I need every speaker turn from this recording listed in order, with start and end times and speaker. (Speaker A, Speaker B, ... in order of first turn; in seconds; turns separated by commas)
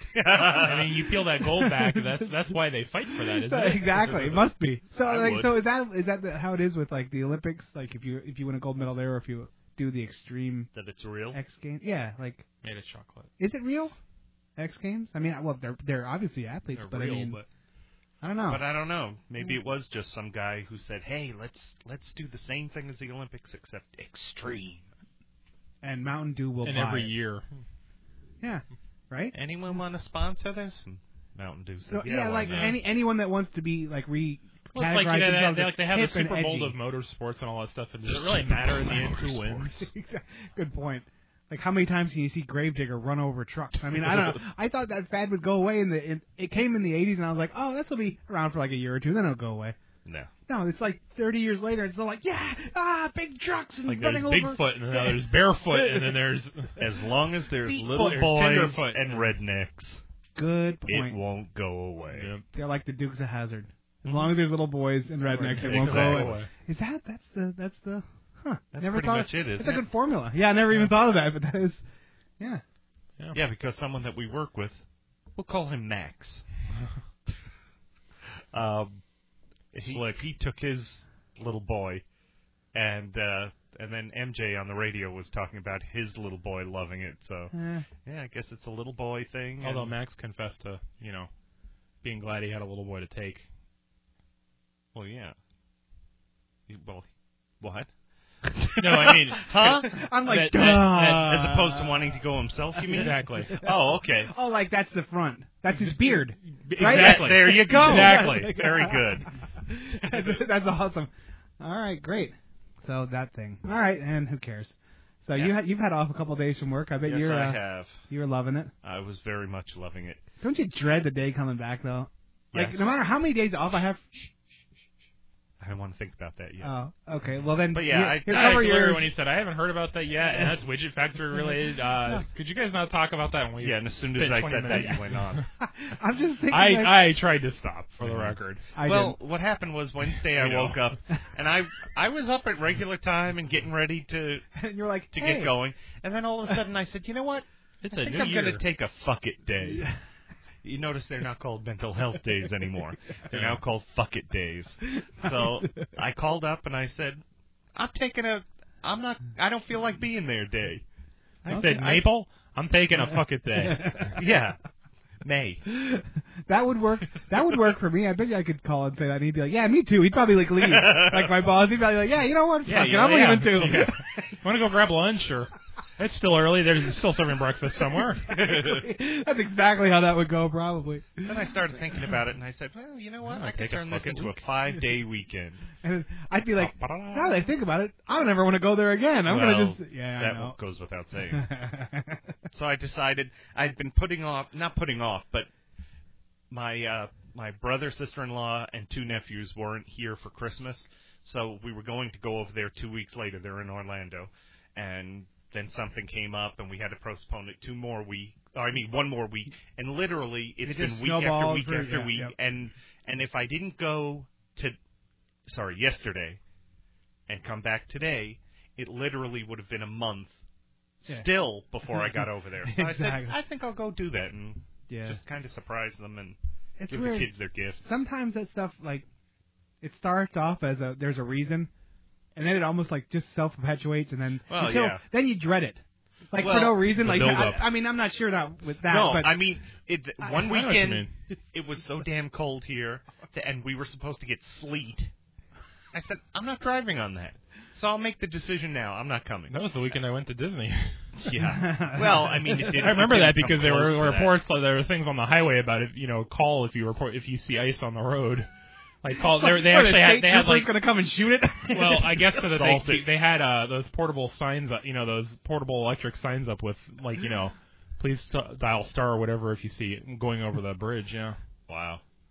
Speaker A: 0.1-0.9, Speaker B: 0.4-4.5, Speaker C: 3.4-10.7, Speaker A: 5.0-5.6, Speaker A: 10.7-11.4, Speaker C: 11.3-12.5, Speaker B: 12.6-13.3, Speaker C: 13.4-13.9, Speaker C: 14.6-17.4, Speaker B: 16.7-17.5, Speaker C: 18.2-18.6, Speaker A: 18.4-24.9, Speaker C: 25.8-27.1, Speaker B: 26.6-27.5, Speaker C: 28.4-29.4, Speaker A: 29.3-32.8, Speaker C: 31.9-36.8, Speaker B: 32.5-32.8, Speaker B: 34.7-39.9, Speaker A: 38.1-39.5, Speaker C: 38.9-49.8, Speaker A: 50.0-50.3, Speaker C: 50.5-56.2, Speaker B: 53.9-56.8, Speaker A: 56.8-60.0, Speaker B: 57.7-59.4, Speaker C: 57.7-58.3, Speaker C: 60.4-61.2, Speaker A: 60.9-62.3, Speaker B: 62.1-62.5, Speaker C: 62.5-71.8, Speaker A: 64.0-64.4, Speaker B: 65.2-66.5, Speaker A: 65.6-66.5, Speaker A: 68.7-69.9, Speaker B: 70.7-71.0, Speaker A: 73.3-76.5, Speaker A: 78.5-79.1, Speaker A: 79.7-82.1, Speaker A: 82.7-90.0, Speaker C: 87.5-87.9, Speaker B: 89.6-91.3, Speaker B: 92.0-93.5, Speaker A: 94.9-95.3, Speaker A: 96.7-97.1, Speaker A: 97.6-97.9, Speaker A: 98.6-100.0, Speaker B: 98.8-99.5, Speaker C: 99.8-101.9, Speaker B: 100.2-101.5, Speaker A: 101.1-104.3, Speaker B: 102.9-103.6, Speaker C: 102.9-103.7, Speaker C: 104.2-109.0, Speaker B: 105.8-108.7, Speaker A: 106.8-109.3, Speaker C: 109.8-118.7, Speaker A: 109.9-110.4, Speaker A: 117.0-118.0, Speaker A: 118.8-120.2, Speaker C: 120.4-124.0, Speaker A: 122.5-122.9, Speaker A: 125.6-126.8, Speaker C: 126.6-129.1, Speaker A: 127.7-129.0, Speaker B: 128.3-135.5, Speaker A: 133.6-135.4, Speaker C: 135.6-136.9, Speaker B: 136.5-138.6, Speaker A: 138.0-144.4, Speaker C: 138.8-139.2, Speaker B: 140.4-140.8, Speaker C: 144.6-145.6, Speaker A: 145.1-149.9, Speaker B: 147.8-148.6, Speaker A: 150.6-157.2, Speaker B: 153.3-153.6, Speaker C: 155.0-155.9, Speaker A: 157.7-160.8, Speaker A: 161.4-162.1, Speaker C: 161.5-161.9, Speaker B: 161.5-164.2, Speaker C: 163.1-164.2, Speaker A: 164.2-164.6, Speaker A: 165.2-165.6, Speaker C: 165.7-174.0, Speaker A: 170.6-171.4, Speaker B: 172.7-178.4, Speaker C: 178.3-181.3, Speaker A: 178.3-178.9, Speaker A: 181.2-185.6, Speaker B: 183.2-184.4, Speaker C: 185.8-190.6, Speaker A: 186.6-187.4, Speaker A: 189.2-191.5, Speaker C: 191.3-192.3, Speaker A: 192.5-195.5, Speaker A: 196.5-214.8, Speaker C: 210.7-212.3, Speaker A: 215.5-216.4, Speaker A: 217.3-220.3, Speaker A: 221.1-226.4, Speaker C: 221.9-223.4, Speaker C: 224.9-225.2, Speaker C: 226.8-229.1, Speaker A: 226.9-227.9, Speaker C: 229.8-231.7, Speaker C: 232.4-239.4, Speaker A: 234.5-235.0, Speaker A: 236.3-237.6, Speaker B: 237.0-237.6, Speaker A: 238.8-245.1, Speaker B: 240.3-241.2, Speaker A: 245.9-249.6, Speaker B: 249.5-251.3, Speaker A: 251.2-254.3, Speaker C: 251.5-252.8, Speaker B: 252.6-258.5, Speaker B: 259.0-260.8, Speaker C: 259.2-262.1, Speaker B: 261.7-271.4, Speaker A: 262.3-263.1, Speaker A: 271.7-272.0